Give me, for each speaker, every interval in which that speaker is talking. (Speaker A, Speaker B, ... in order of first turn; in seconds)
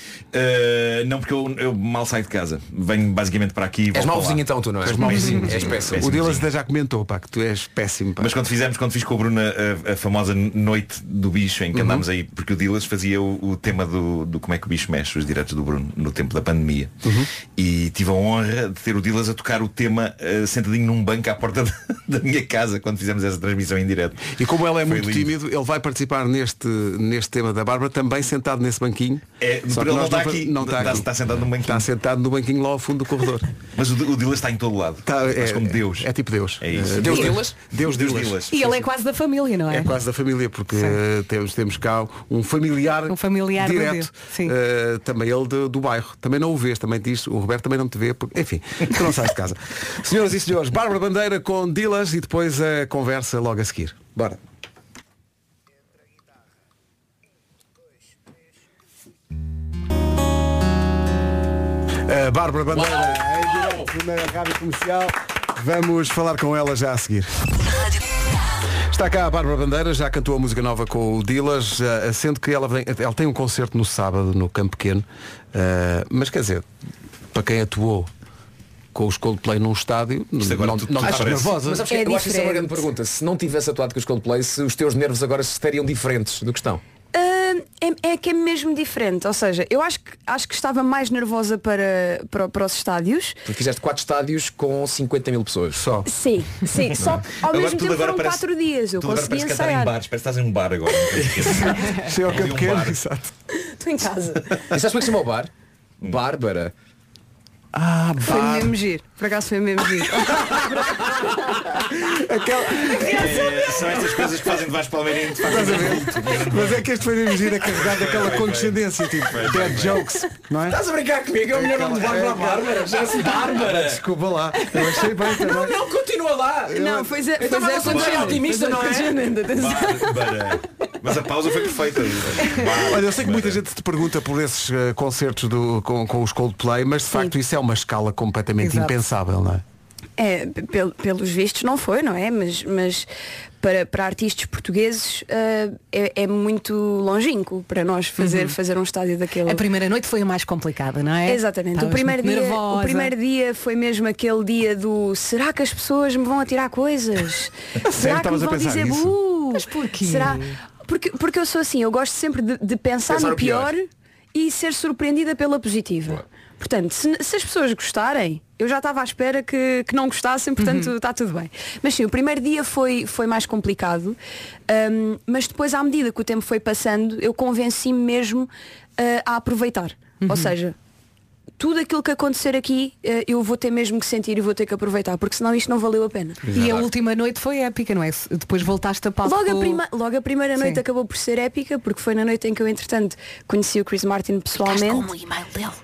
Speaker A: 0.3-6.4, 8.2-16.9, 17.6-25.3, 29.4-31.9, 33.8-36.1, 36.6-38.8, 80.4-81.6, 96.9-103.0, 113.0-116.9, 117.6-120.1, 127.8-128.4, 129.4-133.6
Speaker B: 3.9-6.2, 36.8-37.6, 62.7-63.9, 81.0-86.8, 93.5-95.8, 104.7-105.5, 106.0-106.7, 120.7-124.0, 124.5-126.9, 127.4-129.2, 163.1-163.7, 186.5-186.9
Speaker C: 4.8-8.3, 11.7-12.0, 17.0-17.3, 24.3-31.1, 31.6-33.5, 35.0-38.4, 39.7-54.4, 62.0-67.3, 68.9-76.7, 77.3-78.1, 78.9-81.9, 95.7-96.1, 101.3-103.3, 107.7-108.8, 112.0-113.2, 115.4-120.8, 121.5-125.8, 126.7-127.1, 132.8-139.6, 157.8-159.2
Speaker D: 38.5-39.9, 43.1-44.5, 138.6-138.9, 148.2-148.6, 149.4-153.1, 159.5-160.6, 170.6-170.9, 180.2-180.5, 186.5-189.8, 194.6-195.7
Speaker E: 81.9-82.8, 87.1-93.4, 96.0-99.9, 103.5-104.6, 108.2-110.7, 126.7-130.5, 140.2-143.1, 143.6-149.6, 151.2-163.8, 164.3-174.2, 174.7-180.7, 181.6-186.4, 189.2-195.1